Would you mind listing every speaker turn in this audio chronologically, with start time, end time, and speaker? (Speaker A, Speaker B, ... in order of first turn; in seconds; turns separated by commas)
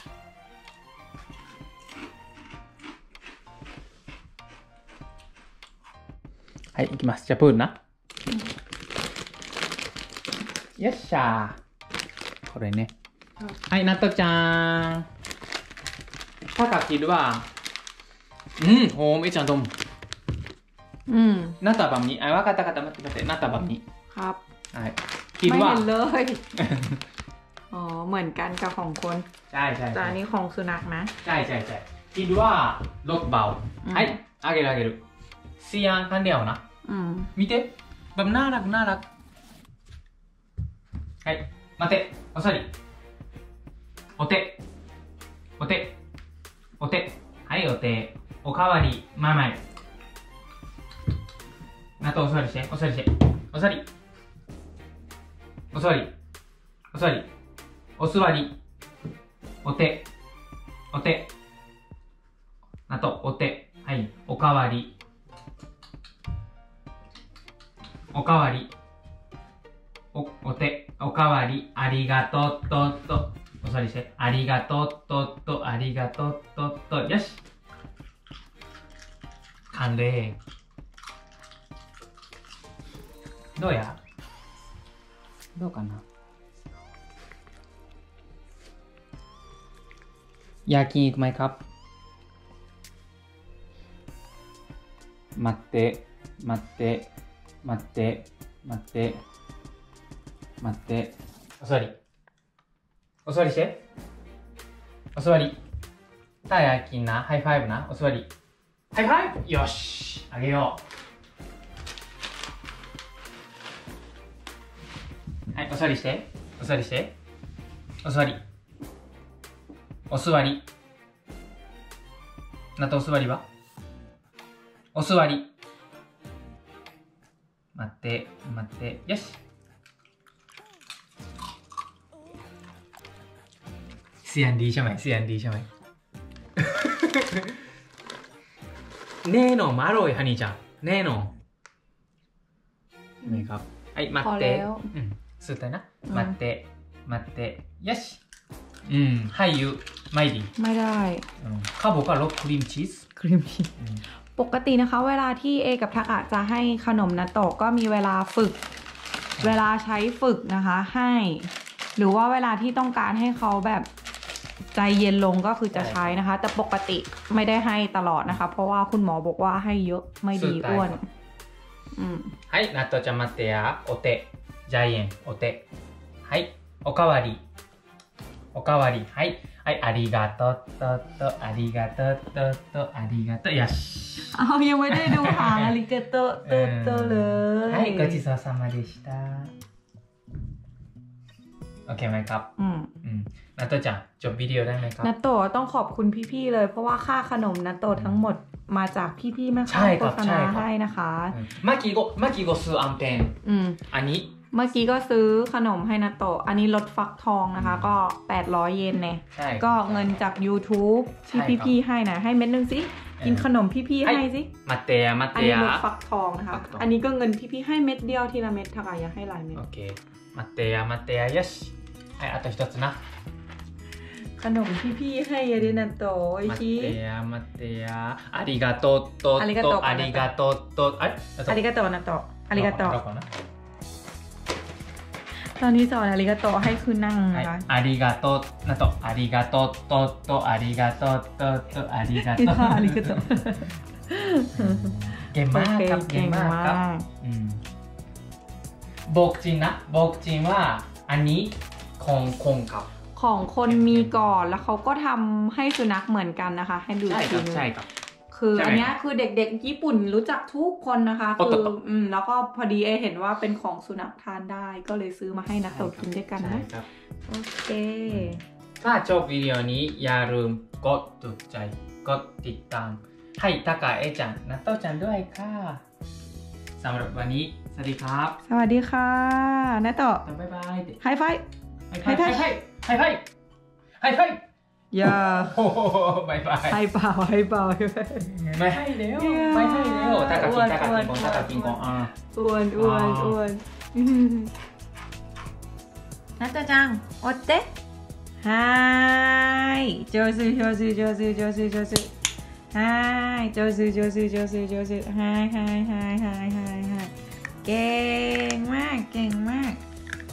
Speaker A: 6.7-7.8, Speaker A: 10.8-11.6, Speaker A: 12.5-12.9, Speaker A: 13.7-15.1, Speaker A: 16.5-17.5, Speaker A: 18.6-19.7, Speaker B: 21.1-21.6, Speaker A: 21.6-23.8, Speaker B: 24.1-24.4, Speaker A: 24.7-25.9, Speaker B: 25.4-26.4, Speaker A: 26.6-27.0, Speaker B: 27.7-29.3, Speaker A: 29.5-30.2, Speaker B: 29.9-31.1, Speaker A: 31.2-35.0, Speaker B: 33.8-34.2, Speaker A: 35.6-36.6, Speaker B: 36.8-37.3, Speaker A: 37.4-39.0, Speaker A: 41.2-42.7, Speaker A: 44.2-44.6, Speaker A: 45.6-46.0, Speaker A: 46.8-49.6, Speaker A: 52.0-53.9, Speaker A: 55.7-56.1, Speaker A: 56.9-57.3, Speaker A: 58.0-58.6, Speaker A: 59.6-60.1, Speaker A: 60.9-61.3, Speaker A: 62.9-64.9, Speaker A: 68.1-68.7, Speaker A: 70.1-77.4, Speaker A: 79.7-80.4, Speaker A: 83.5-84.0, Speaker A: 85.5-86.0, Speaker A: 90.7-91.6, Speaker A: 95.3-97.1, Speaker A: 97.6-99.2, Speaker A: 100.6-101.9, Speaker A: 103.2-103.8, Speaker A: 105.1-105.6, Speaker A: 106.5-108.3, Speaker A: 108.9-110.8, Speaker A: 115.5-117.1, Speaker A: 118.0-118.4, Speaker A: 120.1-120.7, Speaker A: 122.8-123.5, Speaker A: 124.9-125.5, Speaker A: 127.7-129.4, Speaker A: 134.2-135.7, Speaker A: 136.6-137.6, Speaker A: 139.2-141.3, Speaker A: 143.2-148.2, Speaker B: 144.2-144.9, Speaker B: 146.1-146.3, Speaker A: 148.8-150.5, Speaker B: 150.6-151.2, Speaker A: 151.4-153.1, Speaker B: 153.2-153.7, Speaker A: 153.8-154.0, Speaker B: 154.3-158.6, Speaker B: 159.4-163.9, Speaker B: 164.7-171.1, Speaker A: 165.7-166.2, Speaker A: 170.3-171.0, Speaker B: 171.9-172.3, Speaker A: 172.5-175.6, Speaker A: 176.2-177.4, Speaker A: 178.5-185.8, Speaker B: 184.2-188.2, Speaker A: 186.4-189.5, Speaker A: 191.9-192.5, Speaker B: 192.6-192.9, Speaker A: 193.0-195.1, Speaker B: 195.0-201.4, Speaker A: 197.9-198.2, Speaker A: 199.7-200.7, Speaker A: 201.3-203.4, Speaker B: 203.4-203.8, Speaker A: 203.9-204.3, Speaker B: 204.5-214.5, Speaker A: 207.5-207.9, Speaker A: 209.3-210.2, Speaker A: 211.3-211.7, Speaker A: 213.2-213.5, Speaker A: 214.0-215.8, Speaker B: 215.3-219.6, Speaker A: 216.5-216.9, Speaker A: 219.5-223.0, Speaker B: 224.4-227.0, Speaker A: 226.4-231.6, Speaker B: 229.4-230.3, Speaker B: 231.5-233.0, Speaker A: 232.5-233.3, Speaker B: 235.4-237.7, Speaker A: 237.3-243.4, Speaker B: 242.2-247.1, Speaker A: 244.5-247.6, Speaker A: 249.1-252.9, Speaker B: 253.1-257.7, Speaker A: 253.7-254.4, Speaker A: 257.1-257.9, Speaker B: 258.3-266.7, Speaker A: 258.5-258.9, Speaker A: 261.4-261.7, Speaker A: 265.7-266.9, Speaker B: 267.3-268.4, Speaker A: 268.1-275.8, Speaker A: 276.8-278.4, Speaker B: 278.4-280.2, Speaker A: 280.2-281.0, Speaker B: 281.0-281.4, Speaker A: 281.9-283.2, Speaker B: 282.0-282.5, Speaker A: 284.0-284.4, Speaker B: 284.9-285.7, Speaker A: 285.0-286.8, Speaker B: 286.6-294.5, Speaker A: 288.2-292.1, Speaker A: 292.8-293.4, Speaker B: 296.4-297.7, Speaker B: 298.4-302.1, Speaker B: 302.7-307.1, Speaker B: 307.6-309.8